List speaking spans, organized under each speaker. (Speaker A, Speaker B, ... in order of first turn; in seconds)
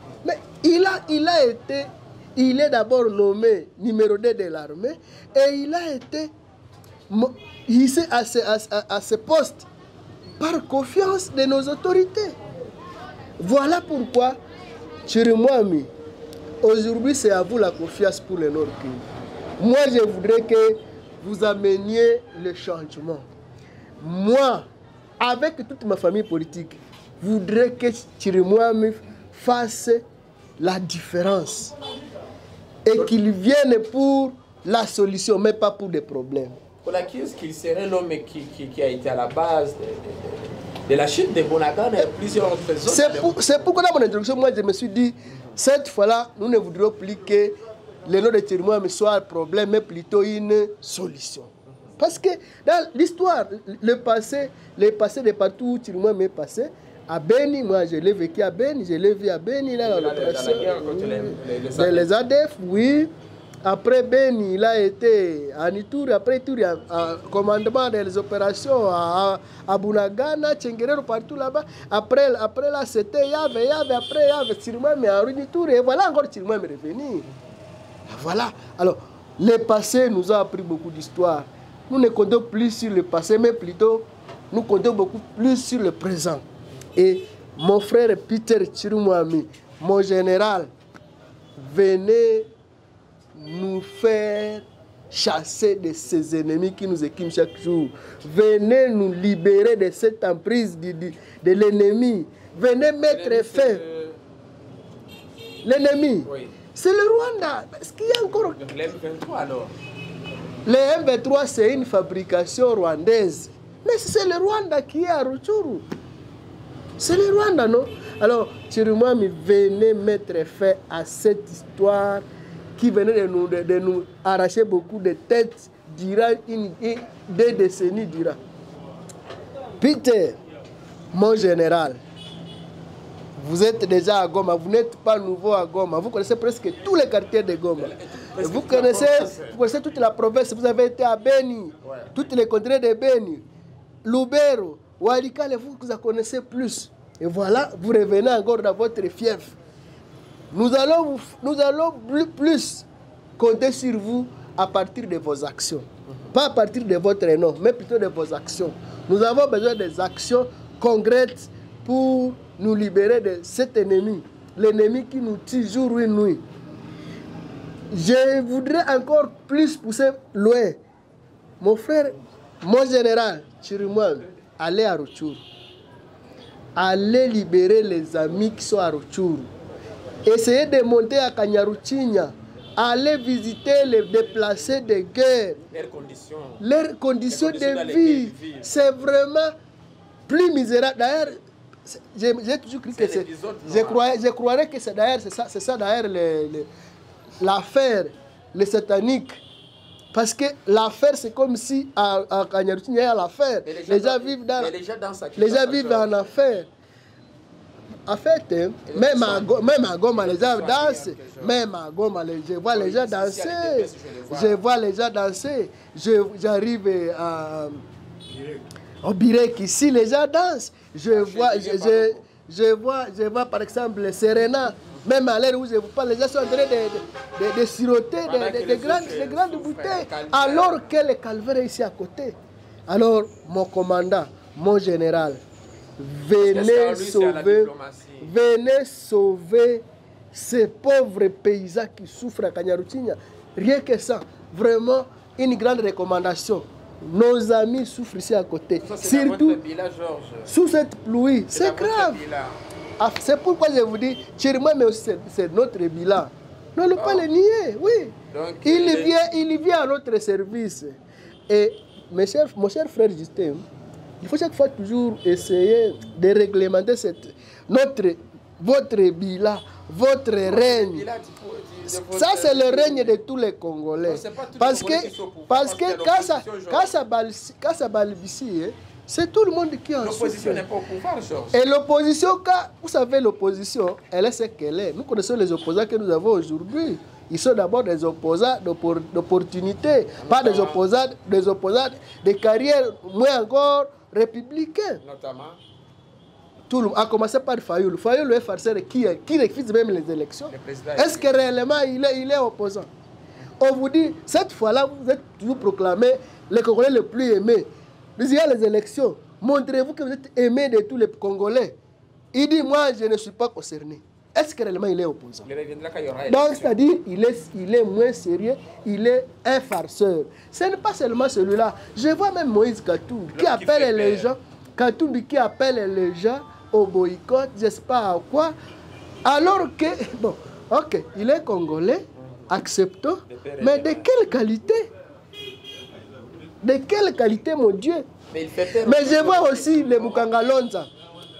Speaker A: 0.2-6.3, 7.1-9.7, 10.4-12.4, 13.4-14.4, 15.1-15.9, 16.6-19.1, 19.6-23.2, 24.0-24.6, 25.2-30.0, 30.6-31.8, 32.8-36.6, 42.8-63.1, 63.6-77.3, 78.1-86.4, 86.9-90.7, 91.6-92.5, 93.3-103.8, 105.6-108.6, 110.6-115.8, 117.0-122.2, 122.8-128.4, 129.8-130.4, 131.1-132.0, 133.4-143.4, 144.0-149.6, 150.5-152.8, 153.4-166.4, 167.9-170.8, 171.6-175.4, 176.8-179.5, 180.2-185.6, 186.6-189.5, 190.3-196.7, 197.4-199.4, 200.1-204.7, 205.4-206.7, 208.1-217.8, 219.0-235.4, 236.0-249.6, 250.5-252.2, 253.0-263.6, 264.2-271.1, 271.9-280.6, 281.5-295.0, 296.7-302.9, 303.6-311.8, 312.3-315.5, 316.3-328.5, 329.2-334.9, 336.6-338.1, 338.8-340.9
Speaker B: 36.8-43.6, 59.8-62.1, 103.0-104.2, 106.2-106.5, 108.5-109.7, 137.8-139.6, 141.8-142.1, 185.7-186.6, 187.3-188.8, 192.9-194.0, 203.6-206.3, 208.9-211.6, 212.7-214.6, 221.1-222.2, 228.2-230.9, 236.4-238.3, 248.8-250.5, 251.5-252.6, 256.9-257.3, 258.3-259.1, 270.4-273.2, 274.0-277.0, 280.0-281.5, 290.2-290.8, 295.0-295.6, 300.5-301.3, 315.4-316.7, 323.3-324.3, 333.2-334.1, 338.3-340.3